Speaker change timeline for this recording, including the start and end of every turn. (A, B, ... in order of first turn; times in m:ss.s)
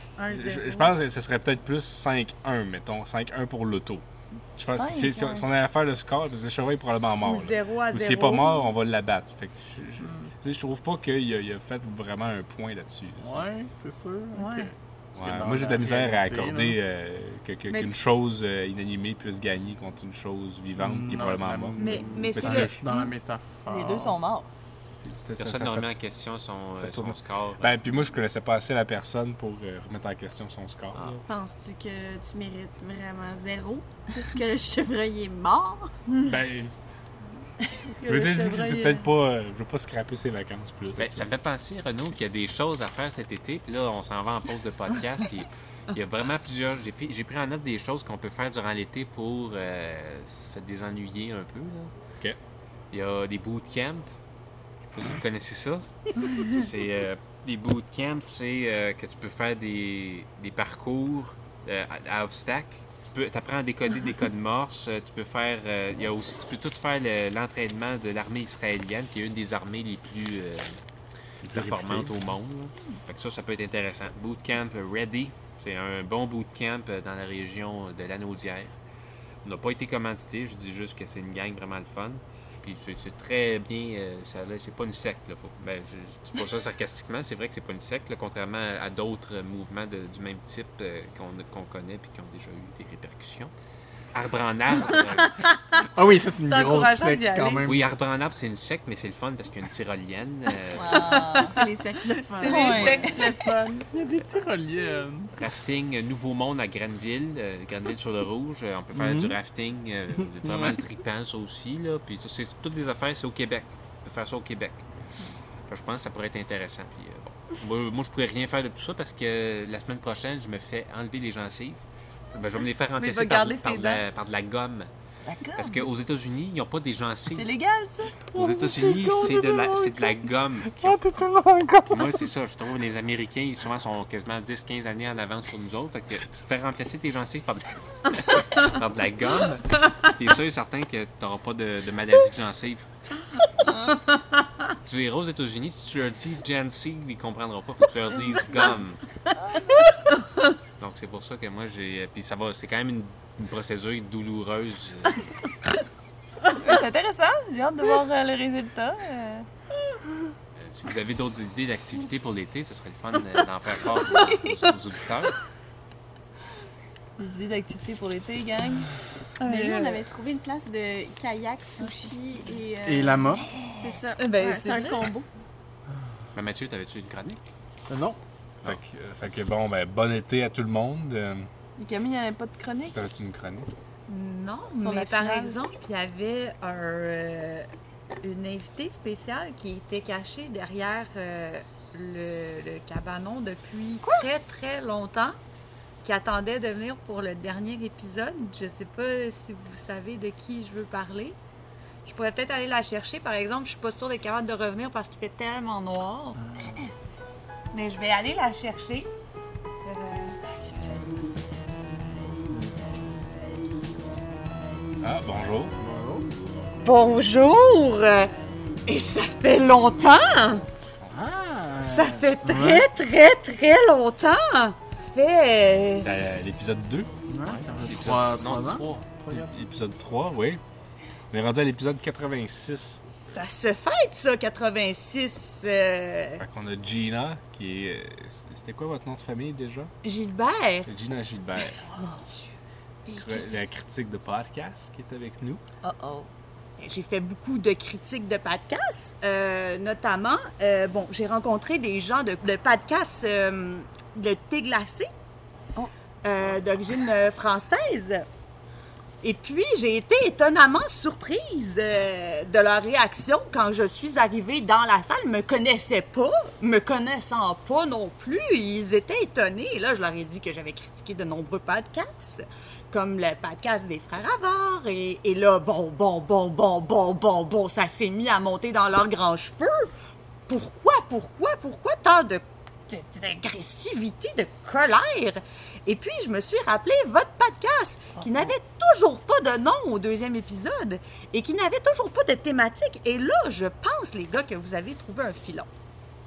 0:00.2-0:00.9 A
0:00.3-0:04.0 B
0:04.6-0:13.5 B
0:04.6-0:05.5 C
0:07.2-0:08.6 A
0:13.2-0:16.8 D
0:14.3-0:14.7 A
0:15.2-0:22.8 B
0:17.7-0:17.9 A
0:20.8-0:24.2 D
0:21.8-0:23.1 A
0:23.6-0:24.5 C
0:25.0-0:25.9 B
0:25.4-0:27.7 E
0:26.8-0:31.2 B
0:30.9-0:31.2 E
0:31.2-0:35.9 F
0:36.2-0:36.7 B
0:37.9-0:38.3 F
0:38.0-0:39.0 A
0:38.0-0:41.3 B
0:41.0-0:51.9 E
0:52.9-0:54.1 E
0:54.8-1:10.8 E
1:11.4-1:12.2 B
1:11.4-1:18.7 E
1:19.4-1:33.5 E
1:34.1-1:35.5 E
1:35.5-1:35.8 A
1:35.9-1:37.9 D
1:36.4-1:37.7 A
1:37.6-1:41.5 E
1:40.7-1:43.3 C
1:40.8-1:43.5 F
1:42.3-1:43.9 A
1:43.9-1:45.3 D
1:45.3-1:54.9 E
1:48.9-1:49.4 D
1:50.3-1:50.8 D
1:55.7-2:01.8 E
2:02.3-2:04.9 E
2:05.2-2:05.9 C
2:05.6-2:07.5 E
2:07.3-2:08.2 C
2:08.3-2:10.1 D
2:08.3-2:11.1 E
2:10.7-2:12.3 D
2:11.9-2:22.9 E
2:24.8-2:29.0 E
2:29.3-2:29.9 C
2:30.8-2:35.3 E
2:36.5-2:39.5 C
2:40.6-2:45.4 E
2:47.2-2:48.9 C
2:49.4-2:55.2 F
2:49.4-2:50.0 C
2:51.8-2:52.1 C
2:52.8-2:53.5 D
2:54.2-2:55.2 C
2:56.3-2:57.4 E
2:57.9-2:58.2 D
2:58.6-3:01.5 B
3:01.8-3:03.0 C
3:02.9-3:03.7 B
3:04.1-3:15.4 A
3:04.7-3:05.6 C
3:16.0-3:21.4 A
3:22.0-3:26.4 A
3:26.4-3:26.9 D
3:27.7-3:29.1 A
3:29.8-3:30.4 A
3:30.5-3:31.1 C
3:32.5-3:32.8 D
3:35.0-3:35.7 B
3:35.8-3:36.3 D
3:36.8-3:38.3 A
3:38.9-3:40.6 A
3:41.1-3:42.9 D
3:41.8-3:46.7 A
3:46.0-3:47.1 B
3:47.3-3:49.5 D
3:47.7-3:49.1 E
3:49.3-3:50.6 B
3:51.3-3:53.0 B
3:53.2-3:56.4 A
3:56.4-3:59.9 B
4:00.0-4:00.9 A
4:00.8-4:01.8 B
4:01.6-4:02.4 A
4:03.0-4:03.6 A
4:03.1-4:05.6 B
4:05.8-4:06.3 A
4:06.8-4:15.1 A
4:16.2-4:18.2 A
4:19.2-4:39.9 A
4:40.5-4:55.7 A
4:48.2-4:48.5 C